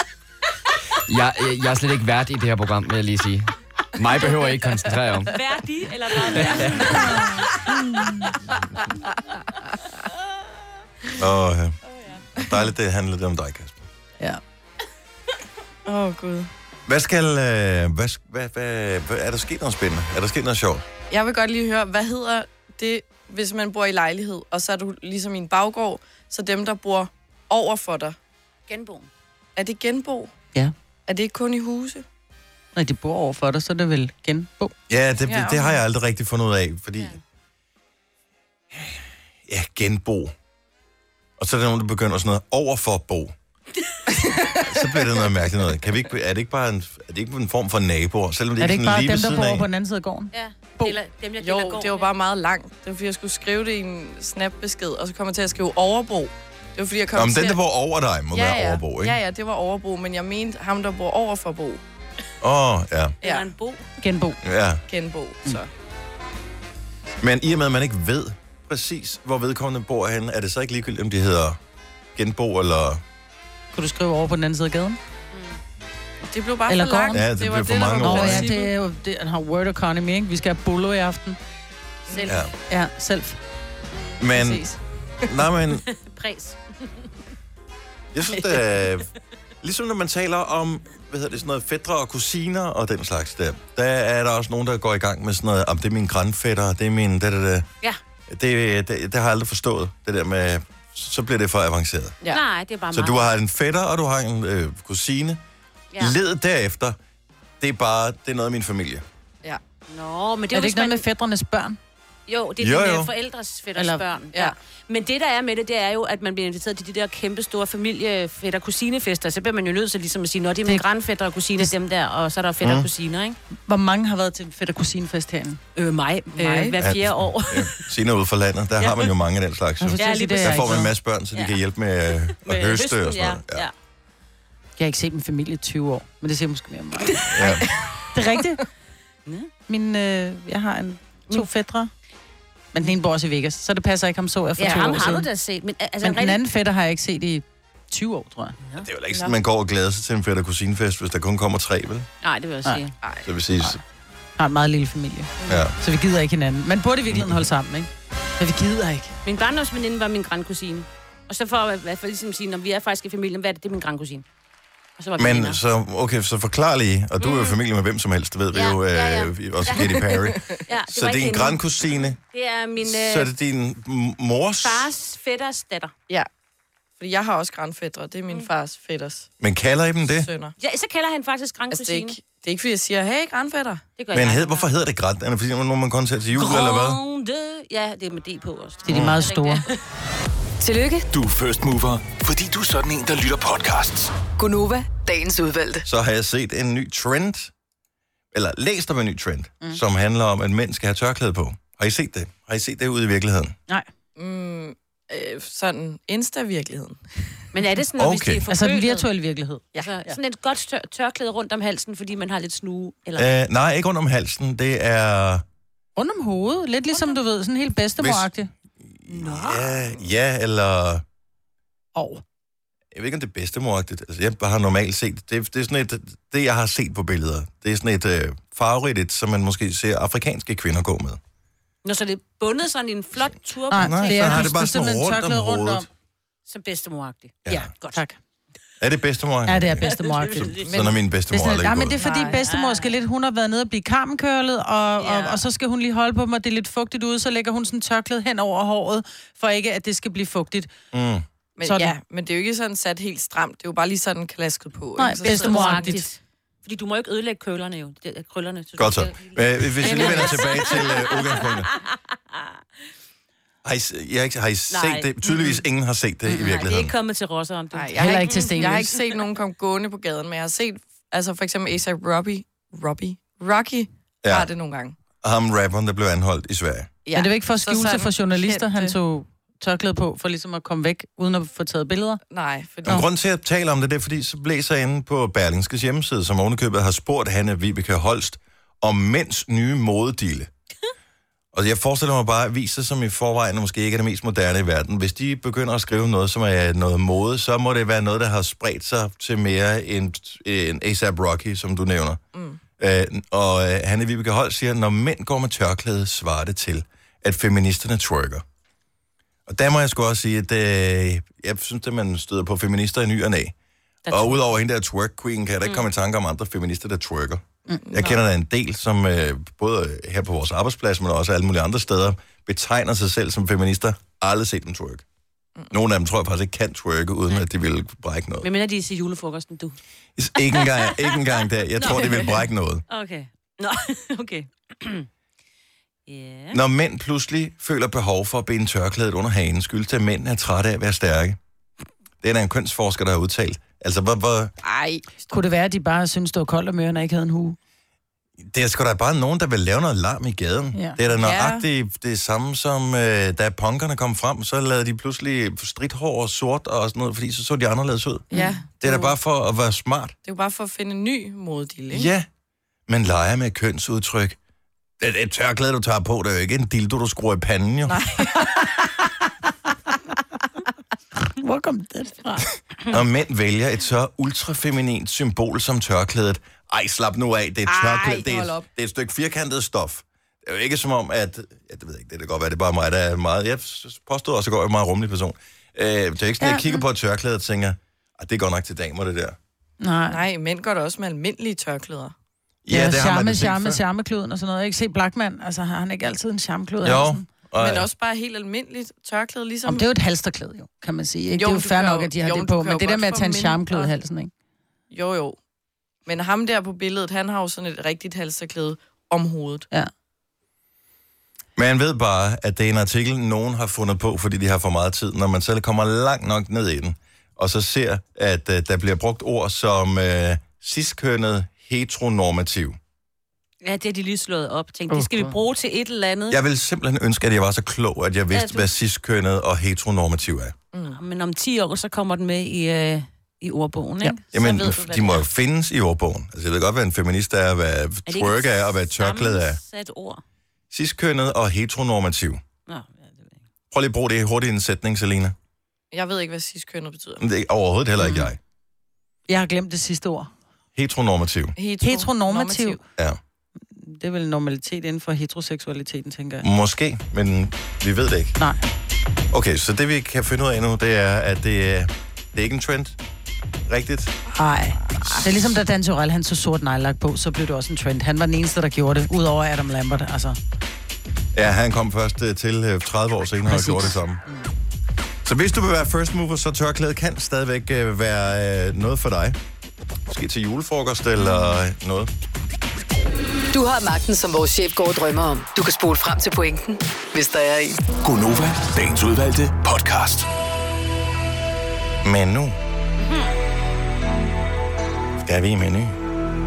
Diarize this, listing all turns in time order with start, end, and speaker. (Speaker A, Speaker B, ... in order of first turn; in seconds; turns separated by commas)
Speaker A: 1.1-5.4, Speaker B: 5.3-7.3, Speaker C: 11.2-11.8, Speaker C: 12.4-13.9, Speaker D: 15.9-16.5, Speaker C: 16.9-20.8, Speaker D: 21.1-28.2, Speaker B: 28.7-29.1, Speaker D: 29.6-30.3, Speaker D: 31.1-32.0, Speaker E: 32.8-34.7, Speaker C: 34.9-37.2, Speaker D: 35.3-35.8, Speaker C: 38.7-40.3, Speaker C: 41.4-43.3, Speaker D: 44.2-44.6, Speaker C: 44.6-49.6, Speaker E: 48.6-51.0, Speaker B: 50.3-52.1, Speaker D: 51.4-57.6, Speaker C: 57.1-59.2, Speaker D: 58.3-61.8, Speaker C: 62.4-63.2, Speaker B: 63.2-63.9, Speaker E: 64.0-64.4, Speaker C: 64.4-64.8, Speaker D: 64.9-65.7, Speaker C: 67.2-71.6, Speaker C: 72.2-73.0, Speaker E: 73.7-75.0, Speaker B: 75.3-75.6, Speaker D: 76.2-78.7, Speaker E: 76.7-77.2, Speaker C: 77.1-78.5, Speaker E: 78.0-81.4, Speaker E: 82.1-83.4, Speaker C: 84.2-84.7, Speaker D: 84.4-84.8, Speaker C: 85.3-85.8, Speaker B: 85.9-86.6, Speaker C: 88.1-89.1, Speaker C: 89.6-97.7, Speaker C: 98.3-102.2, Speaker B: 102.3-103.3, Speaker C: 102.9-105.4, Speaker C: 106.0-107.0, Speaker C: 107.6-109.0, Speaker B: 109.9-111.0, Speaker E: 110.5-111.8, Speaker B: 112.3-123.4, Speaker C: 112.6-113.1, Speaker E: 113.8-114.0, Speaker C: 122.6-122.9, Speaker E: 123.7-125.6, Speaker B: 125.8-127.8, Speaker D: 126.4-126.8, Speaker C: 126.8-133.7, Speaker B: 128.8-129.1, Speaker E: 129.8-130.9, Speaker B: 130.0-131.6, Speaker B: 132.4-133.7, Speaker E: 134.8-137.6, Speaker C: 137.3-137.7, Speaker E: 138.1-138.6, Speaker E: 139.7-141.9, Speaker E: 142.7-145.3, Speaker B: 144.6-146.4, Speaker E: 146.0-148.8, Speaker C: 148.8-152.1, Speaker B: 152.2-152.9, Speaker C: 153.2-153.8, Speaker E: 154.4-159.2, Speaker C: 155.5-155.7, Speaker C: 157.1-157.4, Speaker B: 159.2-164.2, Speaker B: 165.0-165.6, Speaker C: 165.2-172.2, Speaker B: 167.2-167.6, Speaker B: 168.5-173.3, Speaker D: 169.8-170.6, Speaker C: 172.8-174.9, Speaker B: 174.6-175.9, Speaker D: 177.0-179.3, Speaker C: 179.4-180.3, Speaker D: 180.1-180.5, Speaker B: 180.6-182.2, Speaker D: 181.7-183.8, Speaker B: 184.0-184.7, Speaker C: 184.1-187.0, Speaker B: 186.3-189.8, Speaker E: 188.9-189.6, Speaker C: 188.9-189.2, Speaker F: 190.6-191.1, Speaker G: 191.1-194.1, Speaker F: 194.4-195.9, Speaker C: 195.9-197.5, Speaker C: 198.3-203.6, Speaker D: 204.2-207.0, Speaker B: 207.5-209.1, Speaker C: 208.0-208.4, Speaker E: 208.5-210.2, Speaker B: 209.8-213.3, Speaker C: 213.2-215.4, Speaker E: 216.0-218.5, Speaker C: 218.0-218.3, Speaker C: 218.8-221.0, Speaker B: 219.1-219.9, Speaker E: 221.9-222.2, Speaker C: 222.9-231.2, Speaker B: 231.8-234.5, Speaker E: 233.7-235.9, Speaker C: 233.7-235.9, Speaker B: 236.5-238.0, Speaker E: 237.5-238.2, Speaker C: 238.8-242.0, Speaker E: 239.5-240.6, Speaker B: 240.1-240.8, Speaker D: 240.7-241.0, Speaker E: 241.3-250.7, Speaker D: 242.0-242.4, Speaker B: 242.2-243.0, Speaker D: 245.0-245.4, Speaker C: 250.9-251.2, Speaker D: 251.6-256.1, Speaker E: 251.6-252.0, Speaker E: 255.0-256.1, Speaker B: 255.2-261.9, Speaker C: 258.8-261.7, Speaker C: 263.6-266.9, Speaker B: 264.7-265.6, Speaker B: 266.3-269.2, Speaker D: 267.7-275.0, Speaker E: 268.0-268.9, Speaker C: 274.2-274.5, Speaker C: 275.2-276.9, Speaker D: 277.1-279.0, Speaker E: 277.1-282.2, Speaker D: 282.3-283.0, Speaker C: 282.9-290.5, Speaker C: 291.5-302.2, Speaker D: 302.3-302.6, Speaker C: 302.8-308.4, Speaker C: 309.5-313.5, Speaker B: 314.1-314.4, Speaker C: 314.1-325.0, Speaker D: 317.9-318.2, Speaker C: 325.7-328.5, Speaker B: 328.4-329.8, Speaker C: 330.2-332.8, Speaker B: 330.4-331.2, Speaker B: 331.8-335.1, Speaker B: 336.1-336.6, Speaker C: 336.5-341.4, Speaker C: 342.2-344.5, Speaker D: 344.6-345.2, Speaker E: 345.3-347.6, Speaker C: 348.4-360.2, Speaker D: 351.2-351.6, Speaker E: 358.3-358.6, Speaker D: 358.3-359.1, Speaker D: 360.2-362.1, Speaker C: 361.9-362.3, Speaker C: 362.9-364.4, Speaker C: 365.0-368.0, Speaker D: 367.9-368.3, Speaker E: 371.2-372.5, Speaker C: 372.9-389.4, Speaker D: 377.7-378.7, Speaker E: 386.4-386.8, Speaker E: 389.8-390.2, Speaker D: 390.1-392.1, Speaker C: 392.6-393.8, Speaker E: 392.7-397.3, Speaker C: 396.8-397.9, Speaker D: 397.6-399.9, Speaker E: 399.7-404.3, Speaker D: 401.4-403.9, Speaker D: 404.9-405.4, Speaker D: 406.1-409.7, Speaker C: 411.6-422.8, Speaker B: 423.6-426.4, Speaker E: 424.9-425.4, Speaker C: 426.3-430.6, Speaker B: 428.3-428.7, Speaker D: 430.7-431.0, Speaker B: 430.9-435.2, Speaker C: 434.3-439.6, Speaker B: 438.1-440.2, Speaker C: 440.7-442.4, Speaker B: 442.7-443.3, Speaker C: 443.7-445.4, Speaker D: 445.9-447.2, Speaker C: 447.2-448.4, Speaker E: 449.3-450.3, Speaker C: 450.8-451.6, Speaker D: 451.6-452.8, Speaker E: 451.8-452.8, Speaker E: 453.7-456.5, Speaker C: 456.4-458.4, Speaker C: 459.3-463.0, Speaker C: 463.7-464.1, Speaker E: 464.4-470.4, Speaker C: 471.4-474.2, Speaker E: 473.5-474.5, Speaker C: 475.2-479.4, Speaker C: 480.1-482.1, Speaker F: 483.5-487.8, Speaker G: 488.0-490.3, Speaker C: 492.0-492.6, Speaker B: 493.0-493.3, Speaker C: 495.2-496.0